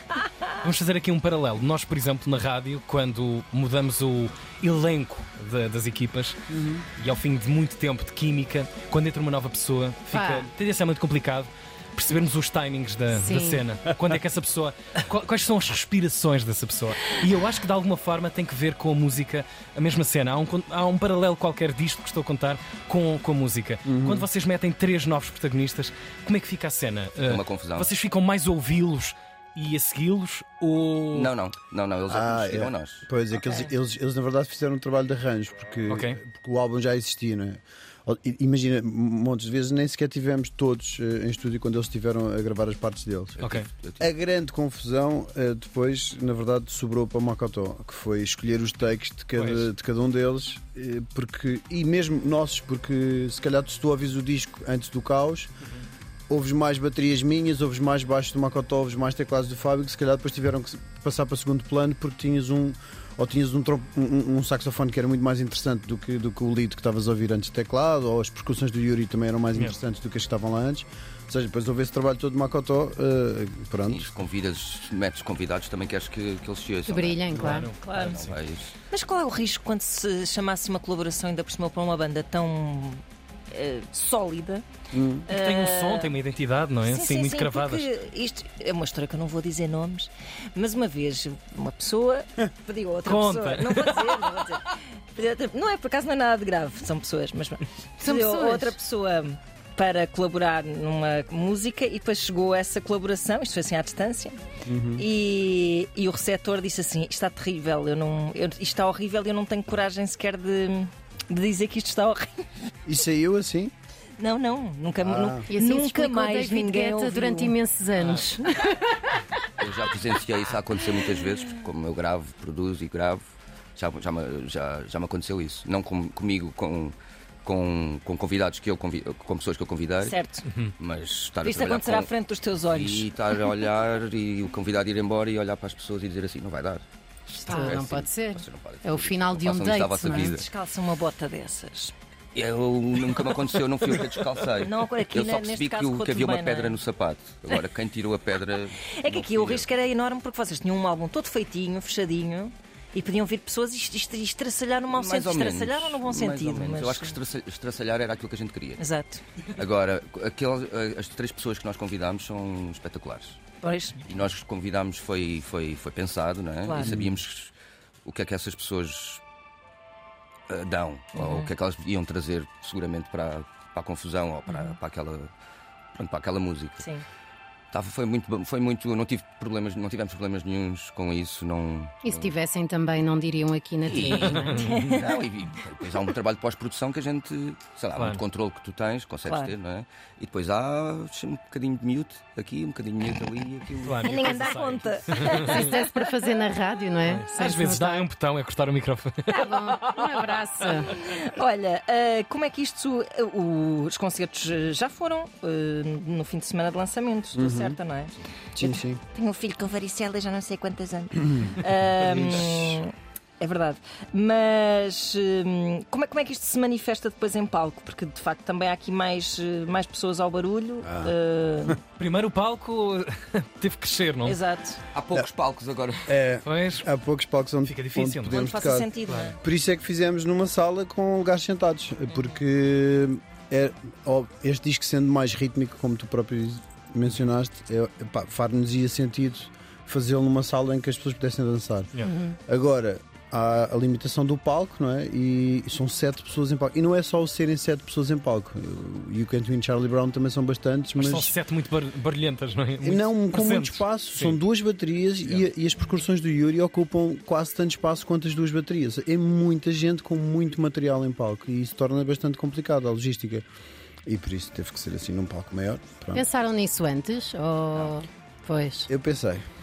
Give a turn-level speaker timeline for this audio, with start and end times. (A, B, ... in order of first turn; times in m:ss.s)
0:00.6-0:06.4 A
0:06.5-0:06.8 B
0:07.0-0:31.3 A
0:10.1-0:10.5 C
0:13.1-0:13.6 C
0:23.8-0:24.3 B
0:27.2-0:27.9 D
0:31.1-0:33.0 D
0:32.1-0:43.4 B
0:35.9-0:36.2 A
0:43.4-0:44.1 D
0:43.4-0:43.7 A
0:44.0-0:55.5 B
0:49.4-0:49.7 A
0:56.3-1:14.1 B
1:13.8-1:18.7 D
1:16.8-1:17.7 C
1:17.3-1:18.3 A
1:17.8-1:18.2 E
1:18.9-1:24.6 E
1:24.9-1:25.2 B
1:25.3-1:27.9 A
1:25.3-1:26.1 E
1:26.8-1:44.4 E
1:33.0-1:34.0 A
1:38.0-1:38.7 C
1:44.6-1:45.0 B
1:45.0-1:52.4 E
1:52.8-1:53.7 B
1:54.2-1:57.5 E
1:55.0-1:55.5 B
1:55.5-1:59.4 C
1:59.6-2:10.2 D
2:10.0-2:10.4 E
2:10.8-2:12.1 D
2:11.4-2:13.1 E
2:12.6-2:16.8 D
2:17.3-2:20.5 D
2:17.4-2:20.3 C
2:17.5-2:17.8 E
2:20.1-2:21.9 E
2:22.3-2:29.7 D
2:24.6-2:26.8 E
2:28.8-2:37.2 E
2:34.9-2:38.8 D
2:38.8-2:39.2 E
2:39.5-2:43.4 D
2:43.6-2:44.0 E
2:44.0-2:47.5 D
2:46.6-2:47.0 E
2:48.0-2:49.2 D
2:50.5-2:55.3 D
2:51.1-2:51.5 E
2:54.5-2:54.7 E
2:56.0-2:56.8 D
2:56.8-2:57.0 E
2:57.7-3:02.3 D
3:02.0-3:04.6 C
3:03.8-3:14.5 D
3:04.1-3:04.8 A
3:04.5-3:05.1 E
3:08.0-3:08.2 A
3:09.2-3:09.5 E
3:13.8-3:15.7 A
3:14.0-3:16.2 E
3:15.4-3:18.1 C
3:17.0-3:19.9 A
3:19.3-3:19.9 E
3:19.4-3:20.9 C
3:20.6-3:41.8 E
3:27.3-3:27.8 B
3:28.5-3:29.0 B
3:32.0-3:32.8 D
3:40.8-3:41.1 B
3:42.0-3:44.4 A
3:44.2-3:44.8 E
3:44.9-3:46.2 D
3:46.1-4:11.3 B
3:46.4-3:46.8 A
3:47.6-3:48.4 A
3:48.3-3:49.4 E
4:02.0-4:02.3 C
4:11.0-4:14.4 A
4:12.8-4:23.4 B
4:24.0-4:26.2 B
4:26.1-4:28.9 C
4:28.9-4:29.4 B